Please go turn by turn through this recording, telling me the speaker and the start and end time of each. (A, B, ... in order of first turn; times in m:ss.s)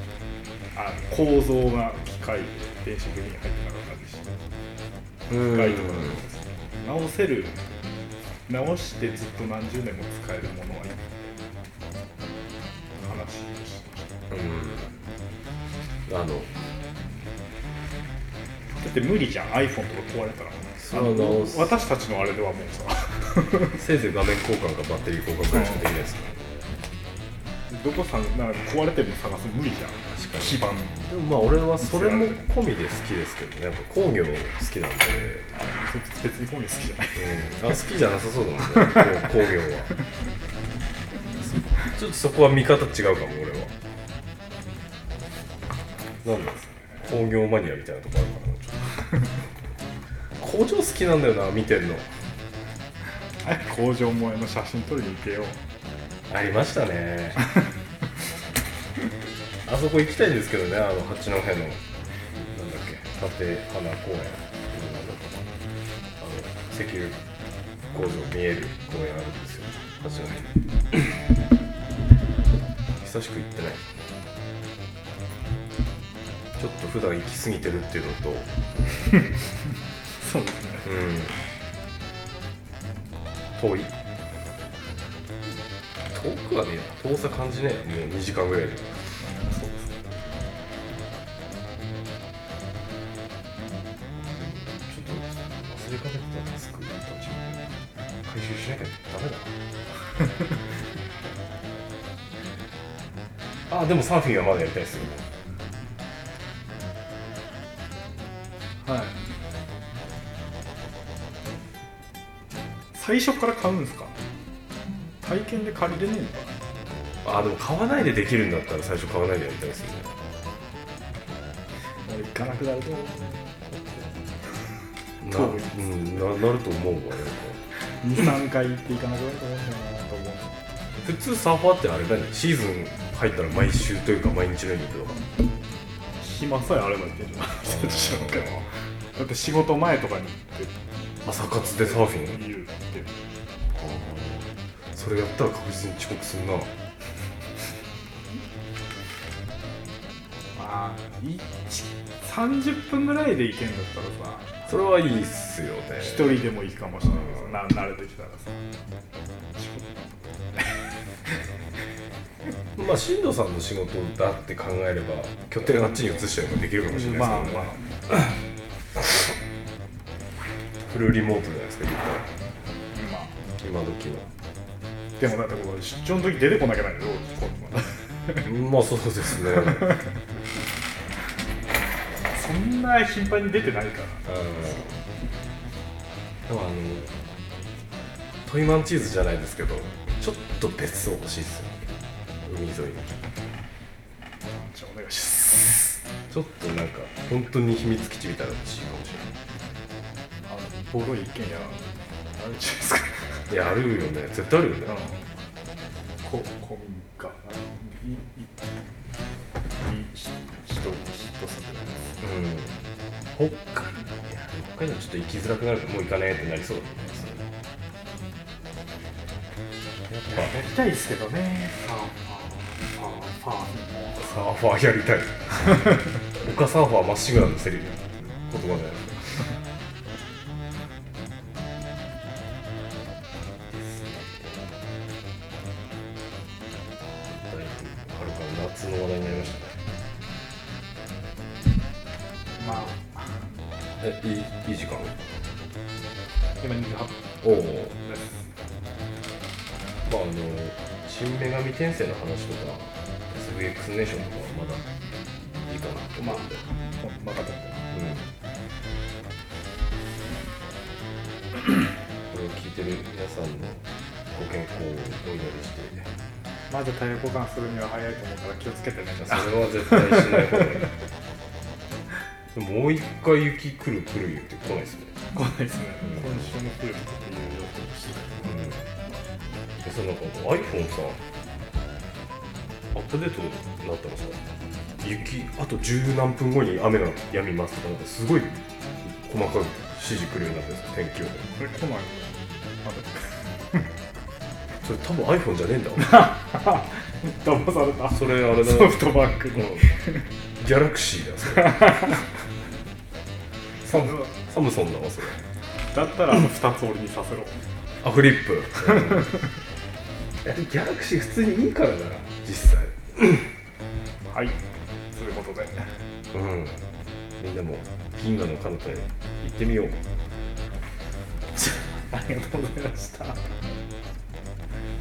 0:00.7-0:04.4 A
0:05.3-0:06.2 B
0:05.3-0:07.6 A
0:08.5-0:11.3 A
0:13.0-0:14.2 A
0:14.3-0:14.9 B
0:16.1-0:16.5 B
0:18.8-0:23.8 A
0:20.8-0:21.7 B
0:23.8-0:26.5 B
0:27.7-0:31.1 A
0:30.2-0:35.5 B
0:31.8-0:32.4 A
0:35.5-0:37.4 A
0:37.2-0:39.9 B
0:38.7-0:39.2 A
0:41.4-0:43.7 B
0:46.2-0:49.0 B
0:50.4-0:52.1 B
0:53.4-0:55.6 A
0:56.3-0:57.5 B
0:59.6-1:01.8 B
1:02.3-1:05.5 B
1:06.2-1:07.2 B
1:07.9-1:11.0 B
1:13.0-1:13.9 B
1:16.6-1:18.5 B
1:20.1-1:20.9 A
1:20.8-1:21.4 B
1:23.6-1:23.9 B
1:26.1-1:29.0 B
1:29.2-1:30.2 A
1:34.3-1:37.7 B
1:38.2-1:39.5 B
1:43.7-1:45.3 B
1:48.8-1:49.2 A
1:52.9-1:54.2 A
1:55.2-1:56.5 A
1:57.2-2:00.1 B
2:02.0-2:04.7 A
2:05.2-2:07.6 B
2:05.2-2:06.2 A
2:07.7-2:10.5 A
2:11.0-2:15.2 B
2:16.2-2:20.7 A
2:17.6-2:18.6 B
2:21.2-2:22.4 B
2:21.6-2:23.2 A
2:23.7-2:26.7 B
2:30.5-2:34.6 A
2:34.6-2:36.3 B
2:36.0-2:38.6 A
2:39.5-2:40.0 A
2:42.8-2:47.7 B
2:46.9-2:48.1 A
2:50.9-2:52.3 B
2:52.9-2:53.3 A
2:53.6-2:54.3 B
2:55.2-2:58.4 A
2:58.4-3:00.0 B
3:02.3-3:04.9 A
3:04.2-3:04.8 B
3:06.5-3:07.1 B
3:08.4-3:11.8 B
3:12.4-3:13.1 B
3:14.5-3:16.0 A
3:16.3-3:19.3 B
3:20.4-3:23.5 A
3:23.5-3:25.0 B
3:24.8-3:25.2 A
3:26.2-3:28.7 A
3:29.8-3:32.2 A
3:32.2-3:32.7 B
3:33.3-3:37.5 B
3:40.1-3:40.5 B
3:40.3-3:44.2 A
3:44.2-3:49.5 B
3:53.7-3:54.7 B
3:57.2-3:59.8 B
4:02.6-4:03.4 A
4:02.6-4:02.9 B
4:04.0-4:05.3 B
4:06.6-4:08.5 A
4:07.4-4:07.9 B
4:10.0-4:14.8 B
4:15.6-4:16.6 B
4:16.2-4:17.8 A
4:17.9-4:18.3 B
4:22.3-4:23.8 B
4:24.3-4:26.1 B
4:26.7-4:30.8 A
4:29.2-4:30.9 B
4:32.5-4:35.1 B
4:35.3-4:38.6 A
4:38.4-4:38.9 B
4:39.8-4:41.2 B
4:42.9-4:44.4 B
4:45.0-4:51.4 B
4:51.6-4:53.8 A
4:54.8-4:56.2 B
4:56.0-5:00.2 A
4:58.1-4:59.8 B
5:00.6-5:02.2 B
5:01.8-5:02.1 A
5:03.8-5:05.4 B
5:03.9-5:04.3 A
5:05.9-5:07.6 A
5:08.0-5:09.3 B
5:08.9-5:09.5 A
5:10.4-5:13.5 B
5:14.3-5:14.6 A
5:15.1-5:15.9 A
5:16.3-5:16.8 B
5:17.4-5:20.0 B
5:21.6-5:23.5 A